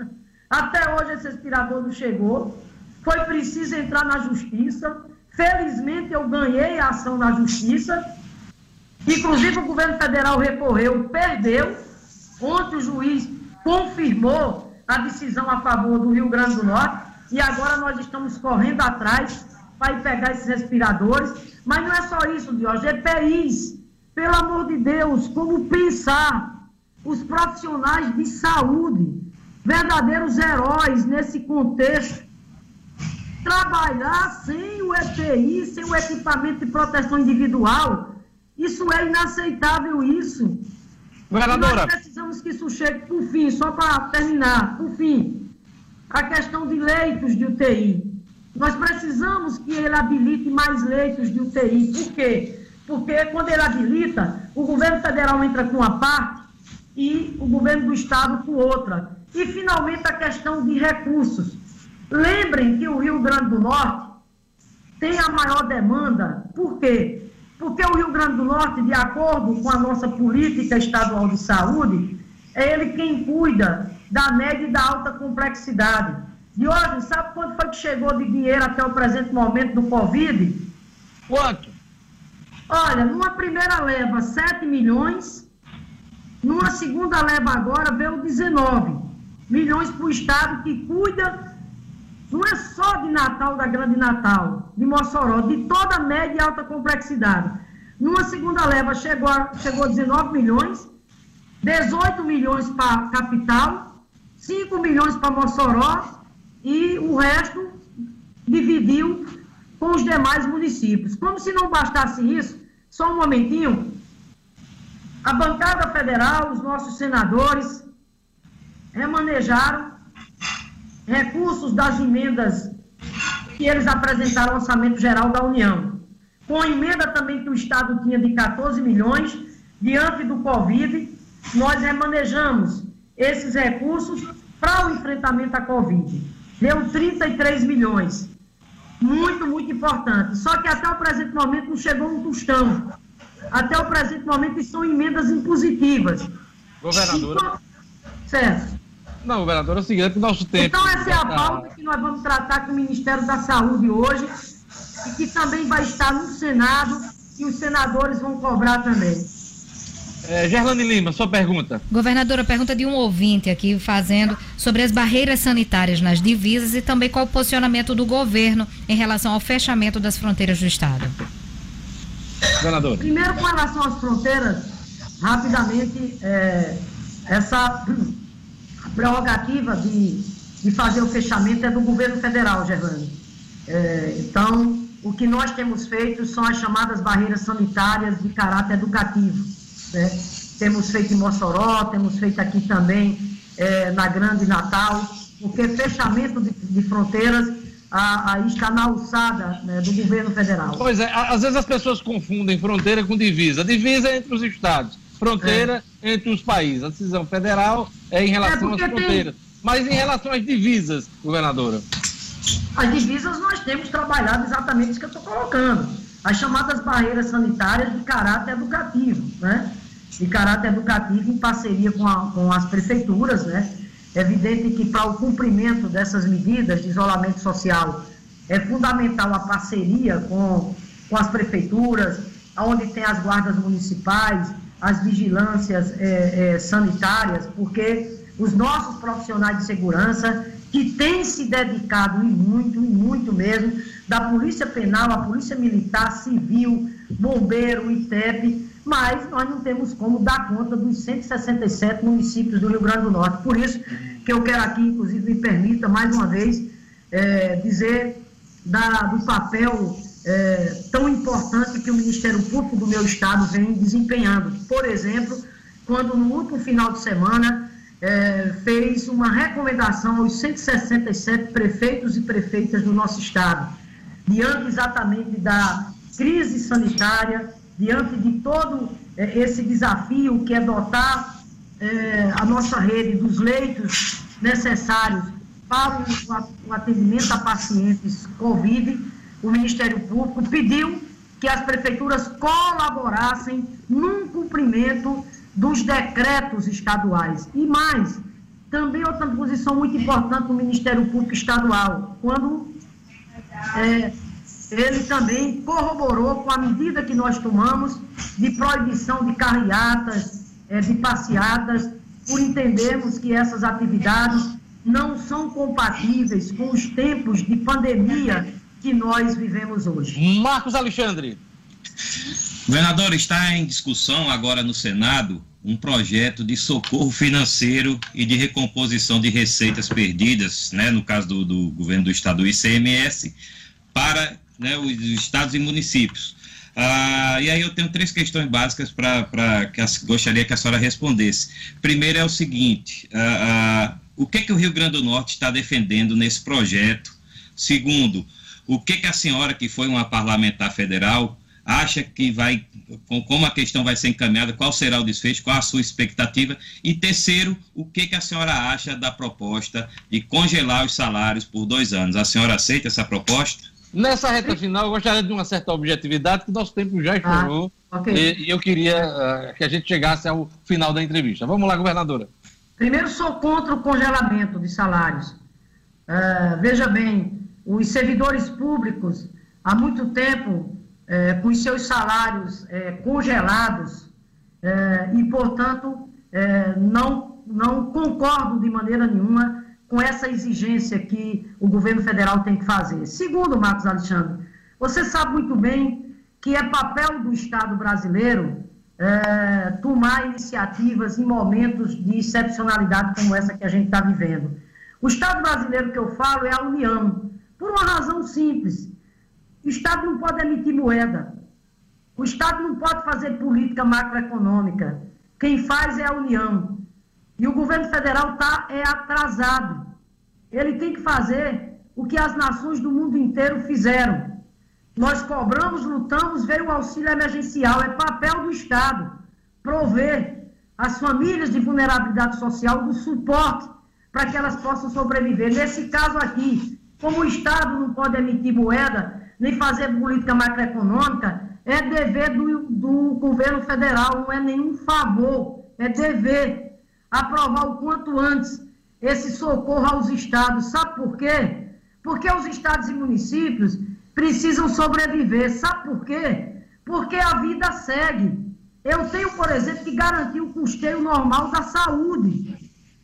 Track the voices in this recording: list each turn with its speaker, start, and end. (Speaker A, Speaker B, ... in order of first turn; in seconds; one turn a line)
Speaker A: 0.5-8.0
Speaker A: 9.1-11.8
Speaker A: 12.4-26.5
Speaker A: 27.0-32.3
Speaker A: 33.4-40.6
Speaker B: 41.3-41.9
Speaker A: 41.5-45.5
Speaker A: 46.1-61.6
Speaker A: 62.1-64.1
Speaker A: 65.0-80.7
Speaker B: 81.3-81.7
Speaker A: 82.7-85.5
Speaker A: 86.4-91.4
Speaker A: 92.3-100.9
Speaker A: 101.6-107.8
Speaker A: 108.5-114.0
Speaker A: 115.2-117.8
Speaker A: 118.9-119.9
Speaker A: 121.1-122.7
Speaker A: 123.6-138.3
Speaker A: 139.0-142.9
Speaker A: 143.5-146.3
Speaker B: 146.8-147.5
Speaker A: 146.9-147.6
Speaker A: 148.3-148.7
Speaker B: 149.2-151.7
Speaker A: 150.6-154.3
Speaker A: 155.0-159.3
Speaker B: 160.2-161.8
Speaker C: 161.9-171.1
Speaker B: 172.6-173.1
Speaker A: 173.0-178.2
Speaker A: 178.8-183.1
Speaker A: 183.7-200.9
Speaker B: 200.7-211.8
Speaker A: 205.4-205.7
Speaker A: 208.4-209.3
Speaker A: 212.7-302.8
Speaker A: 303.7-304.1
Speaker A: 304.7-320.2
Speaker B: 320.1-321.4
Speaker D: 322.7-333.3
Speaker D: 333.9-363.7
Speaker B: 363.9-372.3
Speaker A: 367.2-368.3
Speaker A: 372.8-375.4
Speaker A: 376.1-384.1
Speaker A: 384.6-408.9
Speaker A: 409.6-411.3
Speaker A: 412.2-416.8
Speaker A: 417.4-419.8
Speaker A: 420.5-424.4
Speaker A: 424.9-429.1
Speaker A: 429.6-462.5